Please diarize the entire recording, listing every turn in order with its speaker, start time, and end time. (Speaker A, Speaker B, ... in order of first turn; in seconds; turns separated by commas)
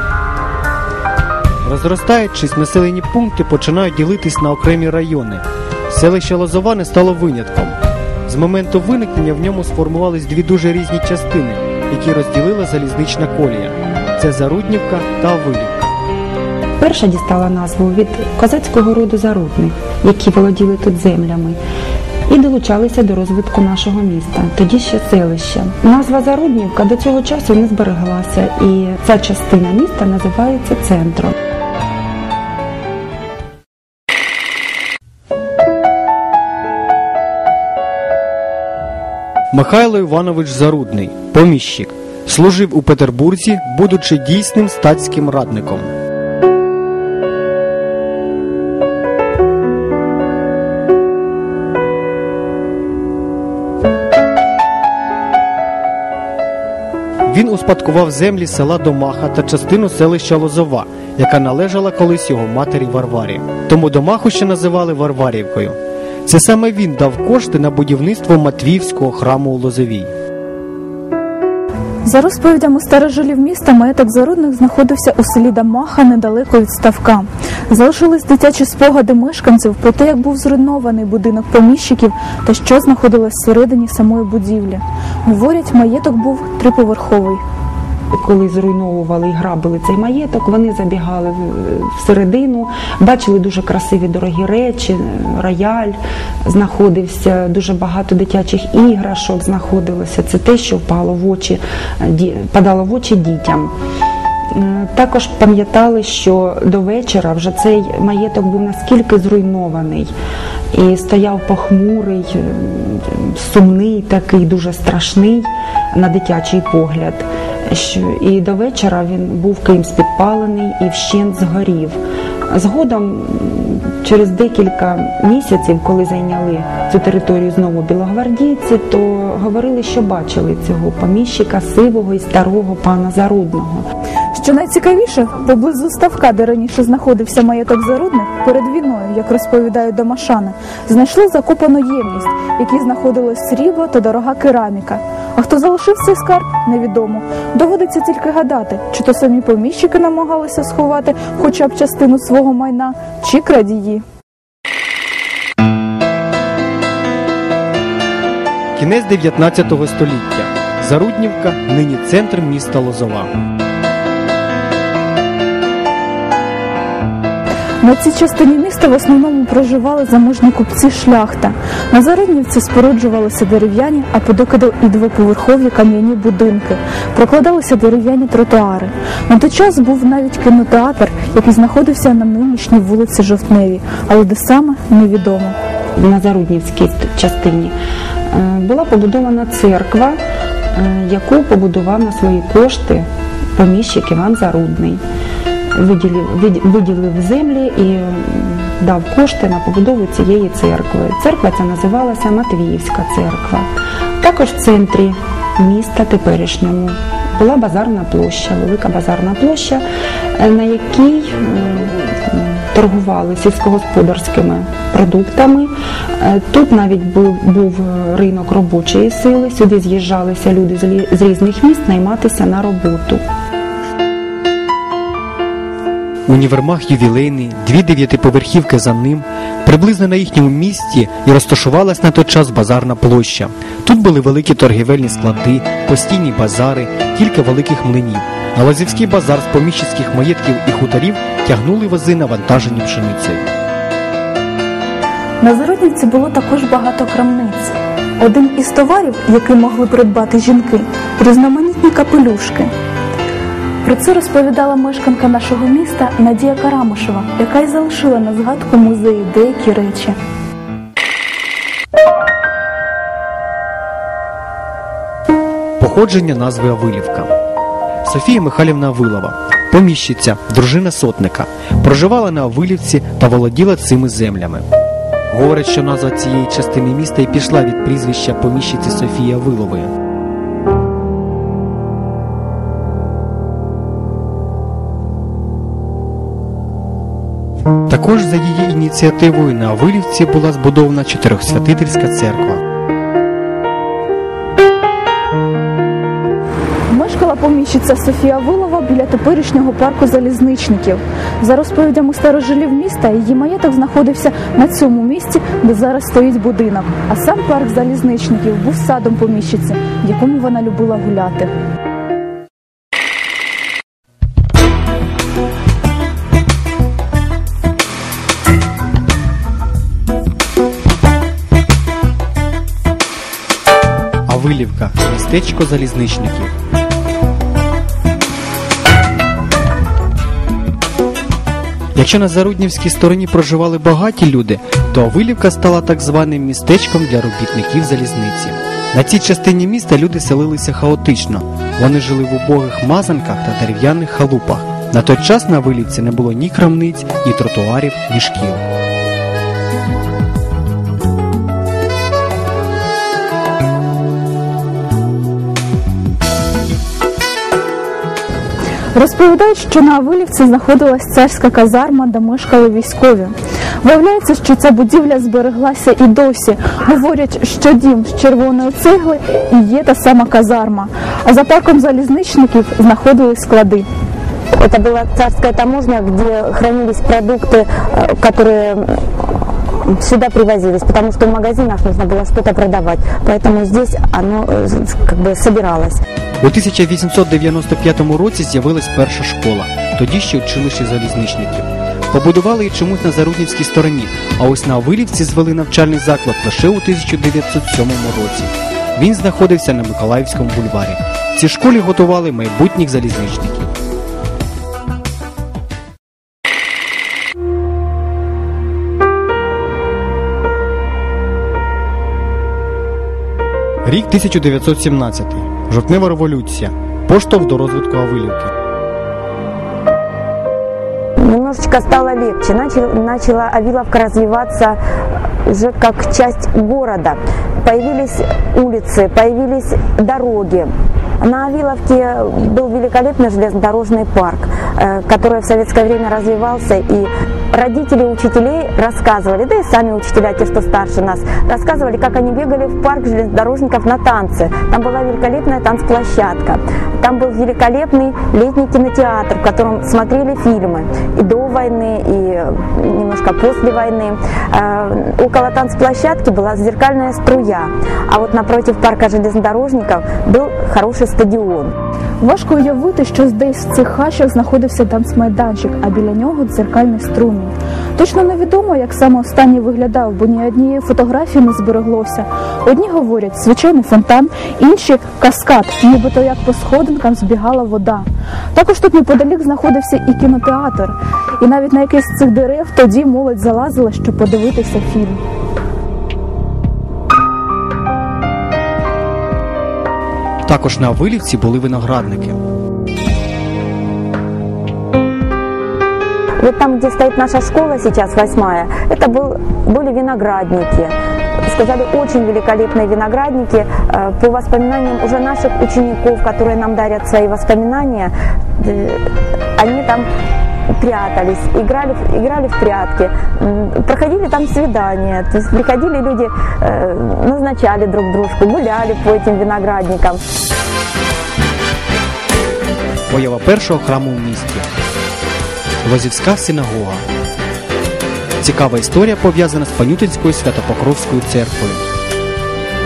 Speaker A: 1.6-15.9, Speaker B: 16.8-21.6, Speaker B: 22.3-31.3, Speaker A: 39.5-45.9, Speaker A: 57.3-70.1, Speaker C: 72.0-87.4, Speaker B: 88.1-103.7, Speaker B: 104.5-110.1, Speaker B: 110.7-122.0, Speaker B: 122.5-133.8, Speaker C: 134.3-154.0, Speaker A: 158.8-163.3, Speaker C: 167.8-185.6, Speaker B: 185.9-187.7, Speaker B: 188.3-190.2, Speaker B: 190.7-195.0, Speaker B: 195.7-203.7, Speaker B: 204.2-209.8, Speaker B: 210.3-223.2, Speaker A: 226.3-243.5, Speaker C: 245.4-252.7, Speaker C: 253.8-260.2, Speaker A: 265.8-267.3, Speaker A: 268.0-274.6, Speaker A: 275.3-279.9, Speaker A: 287.9-292.6, Speaker C: 296.9-311.5, Speaker A: 324.3-326.5, Speaker A: 331.9-348.6, Speaker C: 358.9-373.9, Speaker D: 374.6-379.0, Speaker D: 379.8-386.0, Speaker A: 386.4-403.7, Speaker A: 413.8-418.5, Speaker D: 421.2-424.8, Speaker D: 425.4-461.7, Speaker C: 462.2-485.2, Speaker A: 490.4-492.4, Speaker D: 496.4-500.9, Speaker D: 501.5-510.1, Speaker D: 510.8-520.2, Speaker A: 523.1-524.7, Speaker A: 525.8-527.0, Speaker A: 528.4-531.8